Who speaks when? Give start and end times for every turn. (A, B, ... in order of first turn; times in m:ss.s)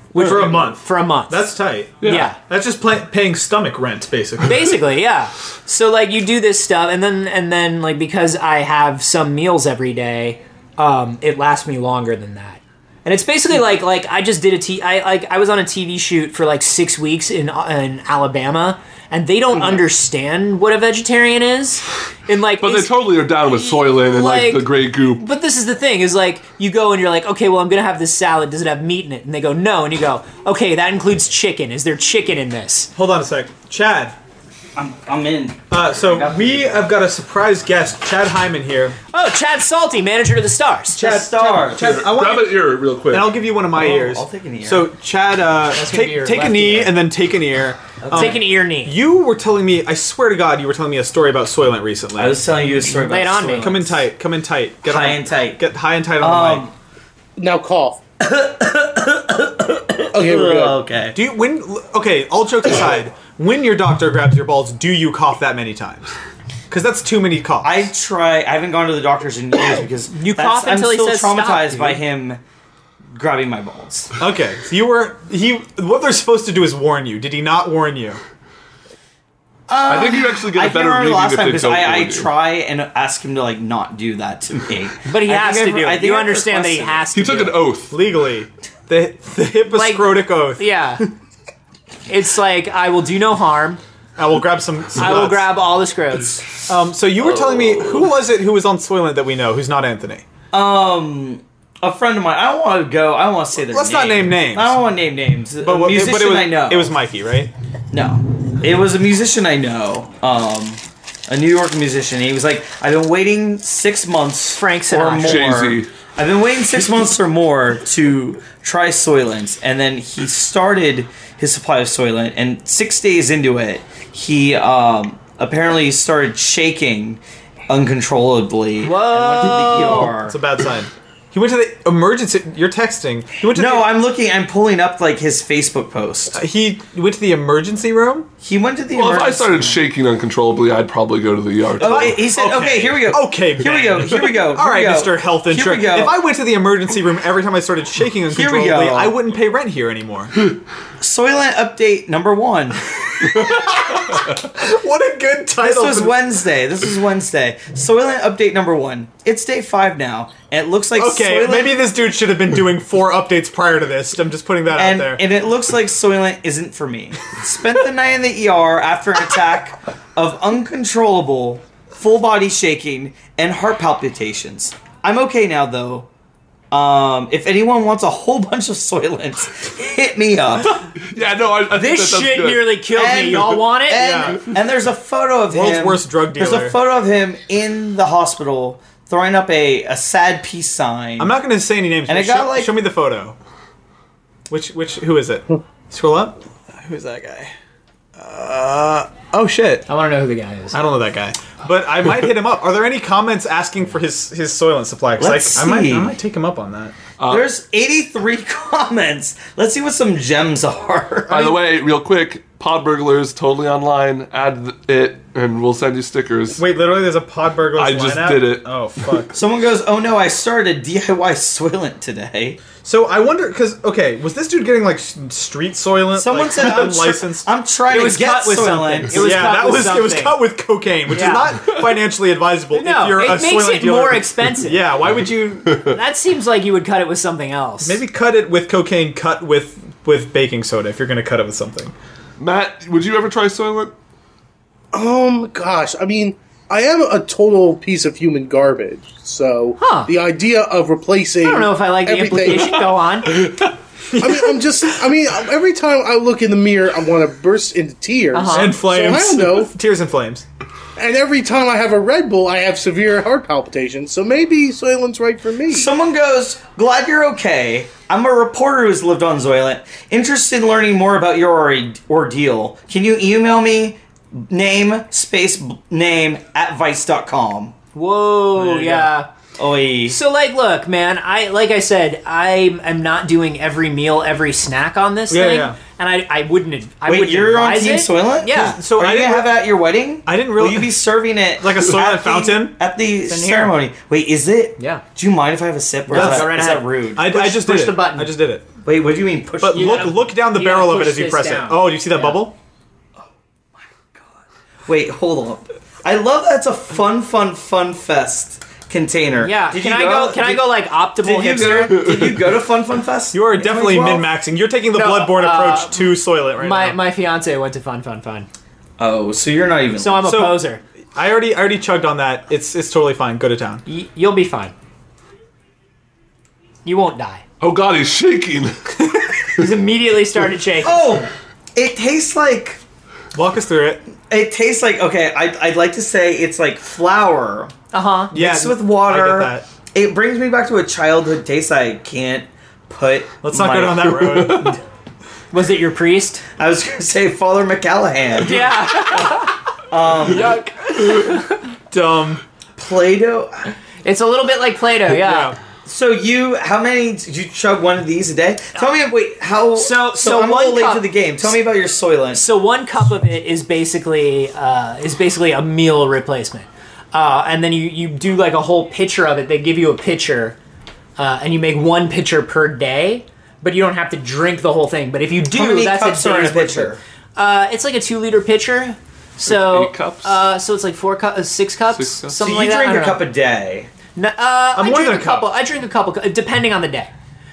0:00.1-0:01.5 A
0:00.2-0:04.8 B
0:02.0-0:02.3 C
0:02.0-0:02.4 A
0:04.4-0:32.9 A
0:22.6-0:25.2 C
0:33.0-0:34.2 B
0:34.8-0:36.7 D
0:35.7-0:39.0 B
0:39.1-0:41.1 A
0:41.0-0:42.0 D
0:41.0-0:52.4 B
0:41.8-0:43.4 C
0:43.7-0:44.9 D
0:45.7-0:47.0 A
0:48.0-0:48.4 D
0:48.1-0:49.0 A
0:52.2-0:54.0 D
0:52.9-0:53.7 A
0:53.6-0:56.7 B
0:54.9-0:55.6 D
0:56.2-0:56.7 D
0:57.4-0:58.0 E
0:58.2-1:01.2 D
1:00.1-1:00.8 E
1:01.1-1:06.1 B
1:06.7-1:07.9 B
1:07.6-1:12.4 D
1:10.1-1:12.0 A
1:13.2-1:14.1 D
1:14.2-1:18.2 B
1:19.7-1:27.1 D
1:19.9-1:22.3 C
1:25.1-1:27.6 A
1:27.1-1:28.0 C
1:27.9-1:31.1 B
1:29.7-1:31.0 A
1:32.1-1:33.8 A
1:34.2-1:35.5 B
1:35.0-1:36.5 A
1:36.7-1:40.3 B
1:40.5-1:46.9 D
1:43.6-1:44.8 B
1:45.6-1:47.5 B
1:47.9-2:10.4 D
1:54.6-1:55.4 A
1:55.2-1:55.9 C
2:08.8-2:10.1 A
2:10.0-2:13.9 B
2:13.5-2:16.4 D
2:16.3-2:18.3 B
2:18.4-2:19.8 D
2:19.0-2:22.2 C
2:21.8-2:26.1 D
2:21.8-2:30.4 B
2:28.3-2:29.2 D
2:31.0-2:33.0 D
2:33.2-2:36.2 B
2:35.6-2:41.8 D
2:41.0-2:45.2 B
2:44.7-2:56.1 D
2:56.7-3:00.9 D
3:01.0-3:02.8 C
3:01.7-3:04.1 A
3:02.9-3:11.3 D
3:04.0-3:04.4 B
3:05.5-3:06.8 B
3:11.2-3:13.4 B
3:12.1-3:12.7 D
3:14.5-3:17.5 B
3:18.2-3:19.9 B
3:19.9-3:20.8 A
3:20.7-3:27.0 B
3:25.2-3:26.1 D
3:27.2-3:27.4 C
3:27.3-3:31.6 D
3:31.3-3:36.6 C
3:36.6-3:39.4 B
3:37.8-3:39.2 C
3:39.3-3:42.6 D
3:42.8-3:47.5 B
3:46.2-3:49.5 D
3:47.9-3:50.4 A
3:49.1-3:55.9 B
3:51.1-3:51.5 A
3:52.7-3:54.8 A
3:55.8-3:58.0 A
3:57.8-4:02.0 B
4:02.4-4:04.0 C
4:04.9-4:12.9 E
4:09.8-4:10.1 A
4:11.4-4:13.5 A
4:14.1-4:14.5 B
4:14.2-4:19.7 E
4:18.3-4:18.8 A
4:18.5-4:20.4 B
4:21.0-4:25.9 E
4:25.7-4:37.8 D
4:37.9-4:39.3 A
4:38.6-4:39.0 B
4:39.6-4:40.2 D
4:40.1-4:48.8 A
4:45.3-4:45.8 B
4:47.1-4:57.3 D
4:48.6-4:49.6 B
4:50.3-4:51.0 B
4:51.6-4:52.8 B
4:53.3-4:53.8 A
4:54.8-4:55.0 A
4:56.1-4:58.4 A
4:56.1-4:56.6 B
4:57.2-4:58.7 B
4:58.8-5:00.2 D
4:59.6-5:02.6 B
4:59.7-5:02.4 A
5:04.2-5:10.7 D
5:09.4-5:12.1 A
5:11.2-5:14.3 D
5:12.0-5:12.4 C
5:13.3-5:17.0 B
5:14.9-5:16.0 A
5:16.6-5:18.5 A
5:19.0-5:20.2 D
5:20.0-5:20.8 A
5:20.2-5:20.6 B
5:21.2-5:23.8 B
5:23.9-5:24.7 A
5:26.8-5:27.4 A
5:27.6-5:29.0 C
5:29.4-5:31.0 A
5:30.8-5:32.8 D
5:33.3-5:34.0 B
5:34.3-5:37.7 D
5:37.9-5:38.3 A
5:38.3-5:44.6 D
5:38.3-5:39.7 B
5:43.4-5:44.8 B
5:44.3-5:44.7 C
5:45.5-5:46.4 A
5:46.6-5:49.4 D
5:48.4-5:49.6 A
5:49.9-5:50.6 D
5:50.3-5:51.6 A
5:51.1-5:51.4 B
5:51.9-5:52.4 B
5:52.8-5:53.7 D
5:54.0-5:55.5 A
5:55.1-5:55.6 B
5:55.8-6:02.4 D
5:59.8-6:01.1 A
6:02.3-6:10.6 A
6:11.2-6:23.2 A
6:15.4-6:17.0 D
6:19.4-6:20.3 C
6:21.9-6:22.4 C
6:22.4-6:23.9 D
6:24.2-6:27.1 A
6:24.8-6:25.5 B